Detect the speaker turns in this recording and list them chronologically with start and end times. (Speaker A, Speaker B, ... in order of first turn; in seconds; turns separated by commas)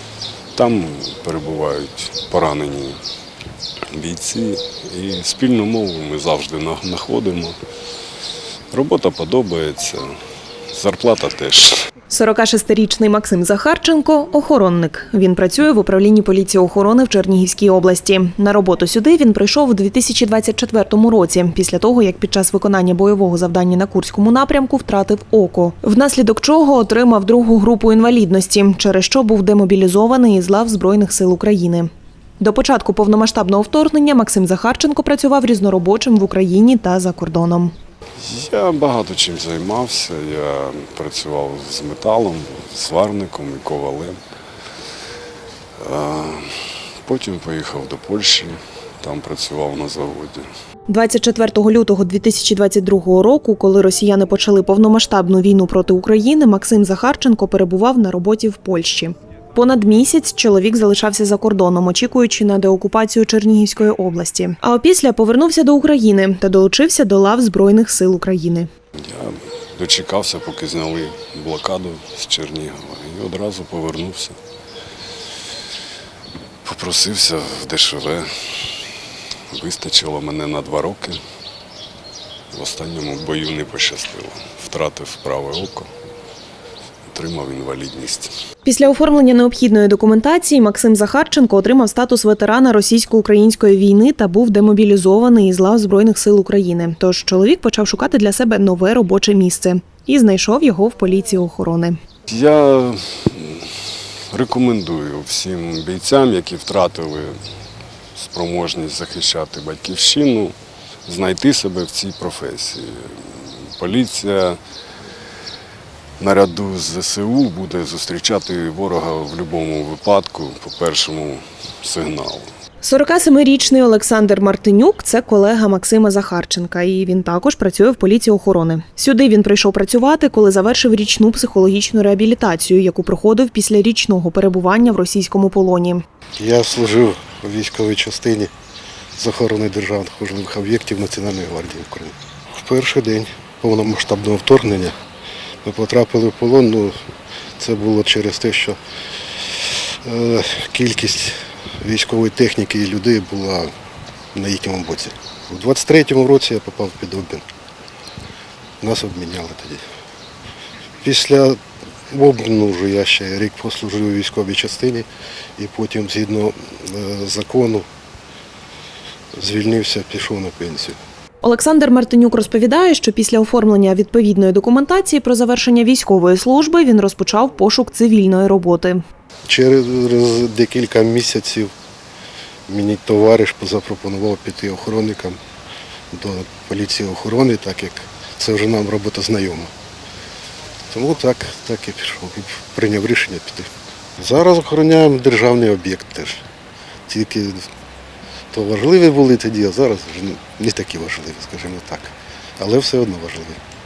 Speaker A: 0.6-3.0, Speaker A: 3.9-7.6, Speaker A: 8.7-10.1, Speaker A: 10.7-11.8, Speaker B: 12.1-37.7, Speaker A: 38.2-44.2, Speaker A: 45.8-50.5, Speaker B: 50.9-68.7, Speaker A: 69.0-74.4, Speaker A: 76.7-79.0, Speaker A: 79.5-81.2, Speaker A: 82.5-85.9, Speaker A: 87.1-88.3, Speaker B: 88.7-102.0, Speaker A: 102.3-107.4, Speaker A: 108.2-114.6, Speaker A: 116.2-122.5, Speaker B: 122.8-136.0, Speaker C: 136.4-138.5, Speaker C: 139.2-144.9, Speaker C: 145.6-147.0, Speaker C: 147.6-148.8, Speaker C: 150.0-153.7, Speaker C: 154.3-157.4, Speaker C: 158.8-159.8, Speaker C: 161.0-161.6, Speaker C: 162.1-165.1, Speaker C: 165.6-167.9, Speaker C: 169.4-171.0, Speaker B: 171.4-179.0, Speaker C: 179.5-181.7, Speaker C: 182.7-185.4, Speaker C: 186.1-189.7, Speaker C: 190.9-196.4, Speaker C: 197.1-197.6, Speaker C: 198.5-203.6